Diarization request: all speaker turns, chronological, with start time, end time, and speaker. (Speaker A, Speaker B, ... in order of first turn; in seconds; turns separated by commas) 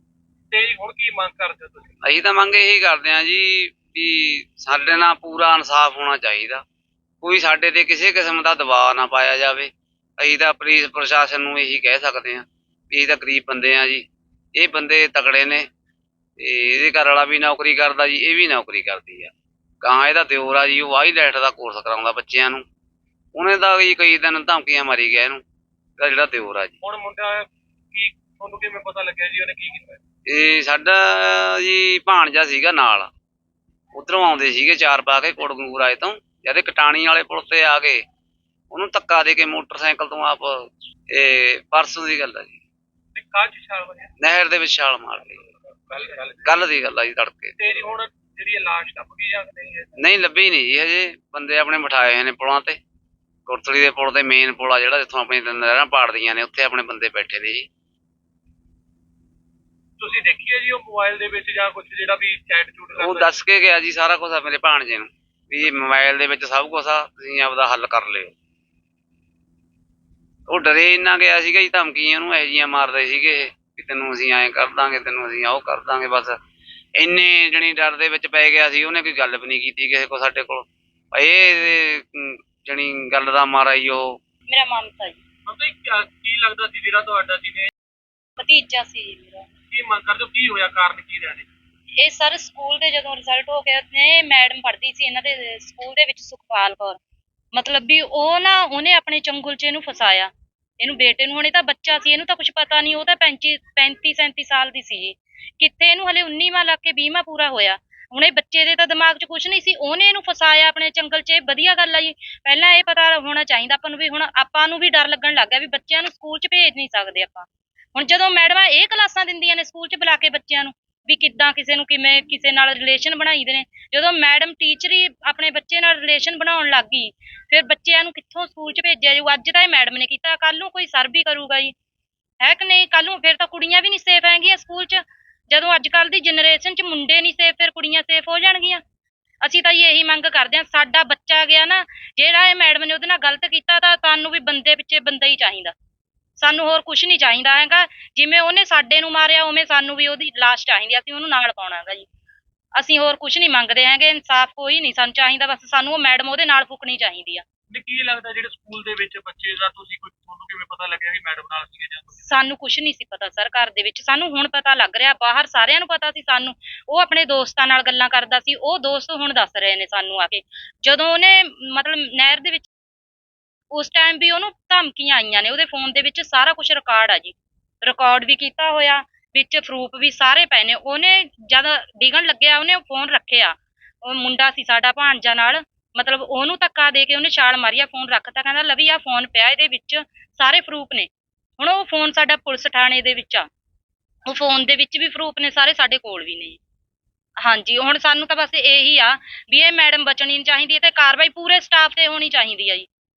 Speaker A: 0.5-1.9, Speaker B: 2.0-6.6, Speaker B: 7.2-14.0, Speaker B: 14.6-15.7, Speaker B: 16.4-22.6, Speaker B: 23.3-25.4, Speaker B: 26.0-26.7, Speaker A: 26.8-30.0, Speaker B: 30.2-33.1, Speaker B: 33.9-38.0, Speaker B: 38.7-42.6, Speaker A: 43.1-44.1, Speaker B: 44.2-45.4, Speaker A: 45.9-46.4, Speaker B: 46.4-47.6, Speaker A: 47.6-49.9, Speaker B: 50.0-52.8, Speaker B: 53.5-57.7, Speaker A: 60.0-63.3, Speaker B: 63.0-68.3, Speaker B: 70.5-76.3, Speaker B: 77.0-84.2, Speaker C: 84.5-85.2, Speaker A: 85.5-87.7, Speaker C: 88.4-89.5, Speaker A: 89.7-91.5, Speaker C: 92.0-97.0, Speaker C: 97.5-131.7, Speaker C: 132.4-138.8, Speaker C: 139.4-145.7, Speaker C: 146.4-152.1, Speaker C: 152.8-157.4, Speaker A: 157.7-162.3, Speaker C: 162.2-172.7, Speaker C: 173.7-193.5, Speaker C: 194.3-196.6, Speaker C: 197.4-202.9